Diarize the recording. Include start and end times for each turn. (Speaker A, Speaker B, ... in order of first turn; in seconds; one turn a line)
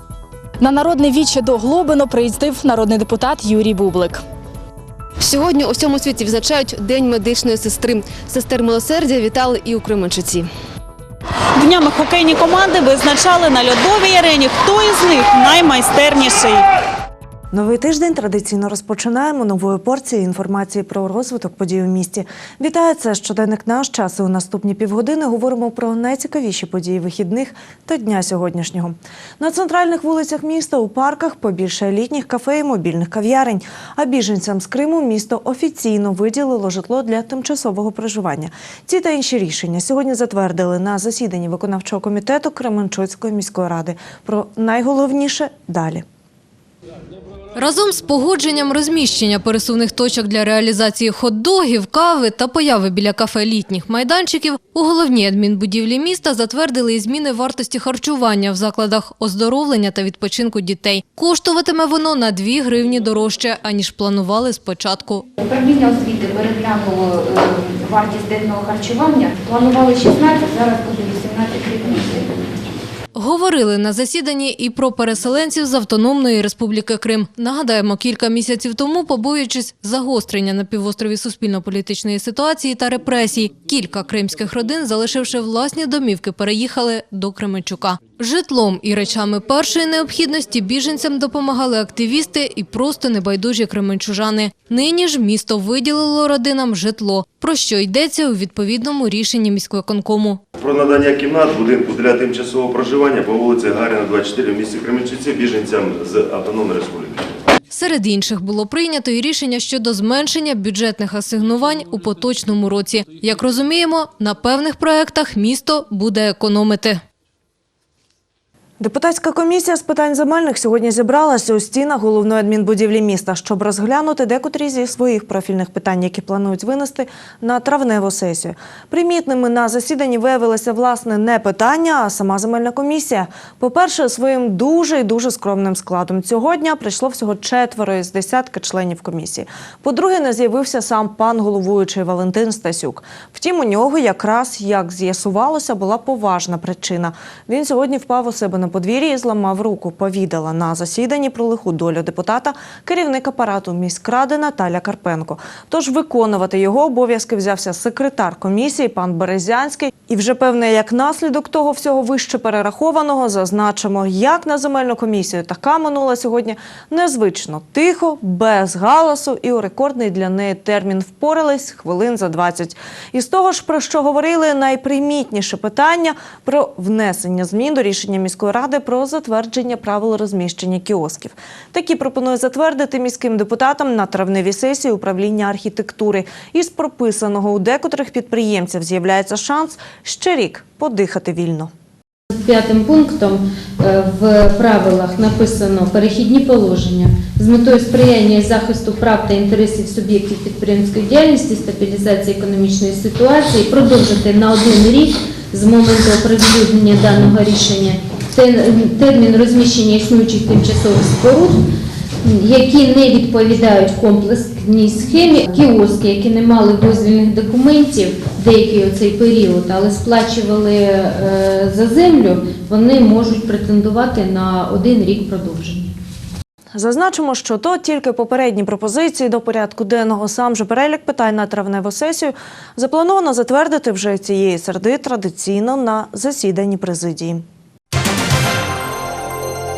Speaker A: 0.7-4.0
Speaker B: 5.2-10.5
Speaker C: 11.6-16.6
Speaker D: 17.5-46.0
Speaker E: 47.6-65.3
Speaker F: 65.4-72.5
Speaker E: 73.2-100.4
Speaker G: 100.6-107.3
Speaker E: 107.7-117.0
Speaker D: 118.8-191.7
Speaker H: 192.3-211.7
Speaker H: 212.2-225.9
Speaker D: 226.8-237.4